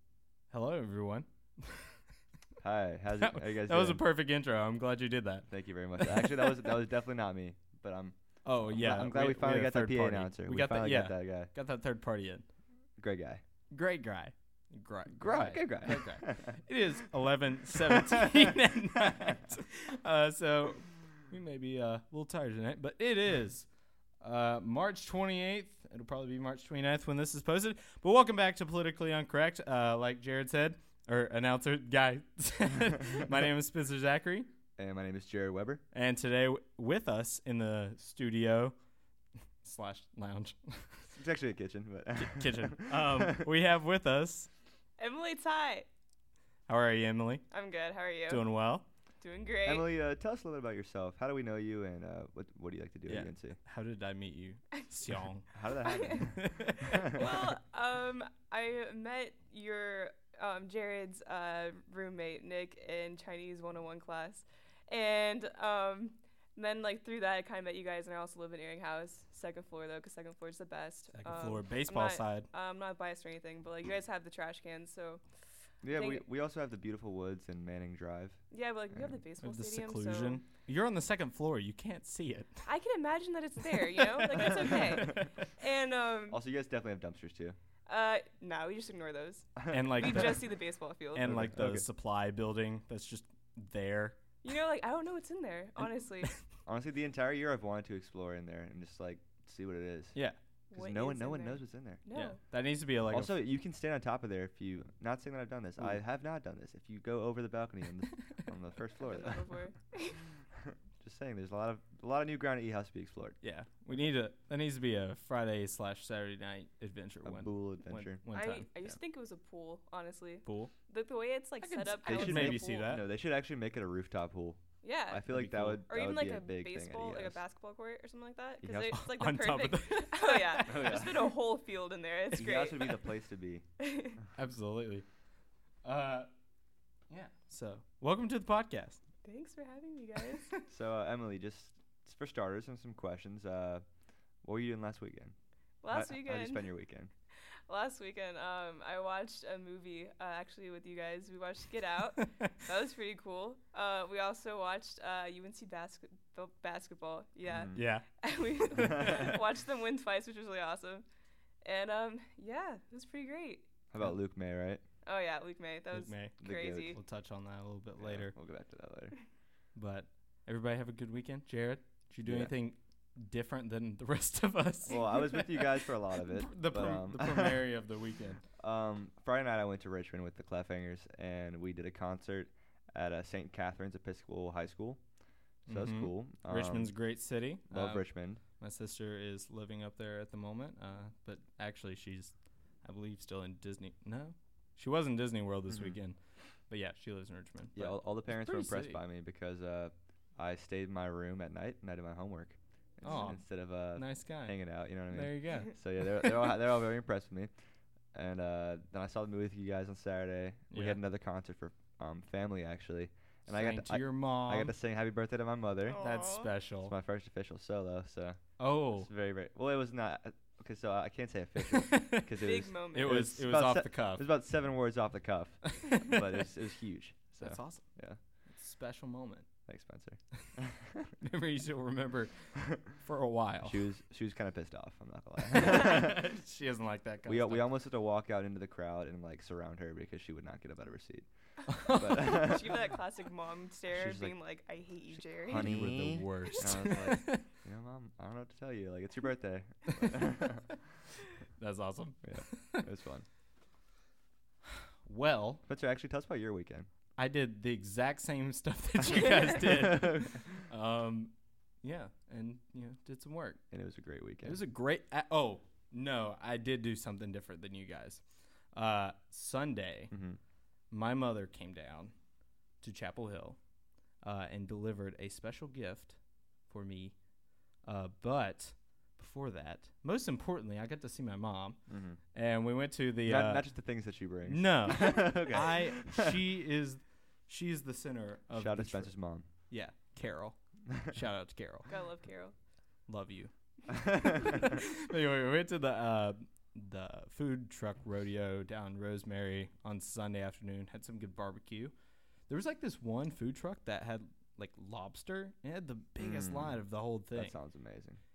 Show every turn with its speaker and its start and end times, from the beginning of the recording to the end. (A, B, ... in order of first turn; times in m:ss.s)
0:00.5-0:02.0 A
0:02.6-0:04.0 B
0:03.2-0:06.6 A
0:05.5-0:08.2 B
0:08.4-0:12.4 A
0:08.7-0:11.5 B
0:13.0-0:13.4 B
0:13.7-0:23.7 A
0:15.1-0:16.6 B
0:17.9-0:18.5 B
0:24.2-0:34.5 A
0:34.8-0:35.8 B
0:35.9-0:38.8 A
0:39.6-0:41.1 A
0:41.1-0:43.5 B
0:42.2-0:44.5 A
0:45.0-0:45.9 C
0:46.7-0:47.4 A
0:47.5-0:48.4 C
0:48.3-0:48.8 A
0:49.2-0:49.9 C
0:49.6-0:53.6 B
0:53.1-0:55.5 A
0:55.5-0:57.3 B
0:55.8-1:15.2 C
0:56.0-0:57.2 A
1:11.1-1:12.5 A
1:15.8-1:18.4 B
1:15.9-1:16.2 C
1:18.5-1:20.4 C
1:19.4-1:22.7 A
1:22.6-1:26.4 C
1:24.3-1:25.3 A
1:24.4-1:25.2 B
1:26.3-1:27.6 B
1:27.9-1:31.3 C
1:29.6-1:30.4 B
1:29.7-1:30.5 A
1:31.1-1:34.2 A
1:31.2-1:31.8 B
1:34.4-1:36.3 C
1:36.6-1:40.2 B
1:40.7-1:42.4 C
1:40.7-1:42.0 B
1:42.1-1:43.3 A
1:43.1-1:49.4 B
1:49.0-1:50.2 C
1:50.6-1:53.4 B
1:53.4-1:58.7 A
1:57.2-1:58.2 B
1:58.3-2:03.0 C
2:00.4-2:00.7 A
2:01.6-2:03.0 A
2:02.0-2:07.4 B
2:04.8-2:05.3 C
2:05.3-2:05.8 A
2:05.9-2:13.1 C
2:08.6-2:09.0 B
2:08.9-2:10.7 A
2:10.6-2:11.3 B
2:12.3-2:13.6 B
2:13.8-2:14.2 C
2:14.4-2:15.0 A
2:15.8-2:16.3 A
2:17.1-2:19.0 A
2:19.2-2:20.5 C
2:20.7-2:23.8 B
2:24.4-2:25.3 B
2:25.8-2:26.7 C
2:25.9-2:27.1 B
2:27.7-2:41.0 C
2:32.2-2:32.5 A
2:37.5-2:37.8 B
2:37.7-2:38.1 A
2:38.8-2:39.4 B
2:41.6-2:43.7 C
2:43.9-2:44.8 B
2:45.0-2:47.0 C
2:45.9-2:48.3 A
2:46.4-2:47.0 B
2:48.0-2:49.2 B
2:49.7-2:55.5 A
2:52.2-2:52.5 B
2:54.8-2:57.6 B
2:56.2-2:58.4 A
2:58.6-3:05.0 B
3:05.7-3:16.2 A
3:05.7-3:06.9 B
3:07.7-3:08.4 B
3:15.7-3:16.0 B
3:16.7-3:19.0 A
3:17.7-3:27.5 B
3:23.0-3:24.6 A
3:25.1-3:26.5 A
3:28.1-3:36.0 B
3:30.7-3:31.0 A
3:33.5-3:34.7 A
3:35.8-3:36.5 C
3:36.0-3:36.9 A
3:36.8-3:48.2 B
3:38.6-3:39.1 A
3:41.7-3:42.3 A
3:42.3-3:43.2 C
3:42.9-3:44.3 A
3:45.7-3:46.2 A
3:47.4-3:47.9 A
3:48.5-3:49.5 A
3:49.6-3:51.2 B
3:51.2-3:53.8 A
3:53.6-3:56.3 B
3:55.5-3:57.7 A
3:57.2-4:01.3 B
4:01.7-4:02.4 A
4:01.8-4:05.7 C
4:01.9-4:02.8 B
4:03.9-4:04.3 B
4:05.4-4:10.7 B
4:05.5-4:07.5 A
4:11.6-4:12.9 A
4:12.2-4:13.2 B
4:15.0-4:15.6 A
4:15.7-4:16.9 B
4:17.2-4:23.6 A
4:19.6-4:20.4 B
4:23.7-4:24.6 B
4:24.4-4:28.2 A
4:28.7-4:30.1 A
4:30.1-4:30.4 B
4:30.9-4:32.1 A
4:32.8-4:33.6 A
4:34.2-4:37.2 A
4:37.8-4:41.8 A
4:41.9-4:42.2 B
4:42.3-4:43.6 A
4:43.2-4:46.4 B
4:44.5-4:49.1 A
4:48.5-4:49.5 B
4:49.7-4:51.9 A
4:51.9-4:52.5 C
4:53.1-4:53.5 A
4:53.9-4:54.4 B
4:54.2-5:01.9 A
5:02.5-5:07.5 A
5:06.2-5:06.8 B
5:07.3-5:08.2 B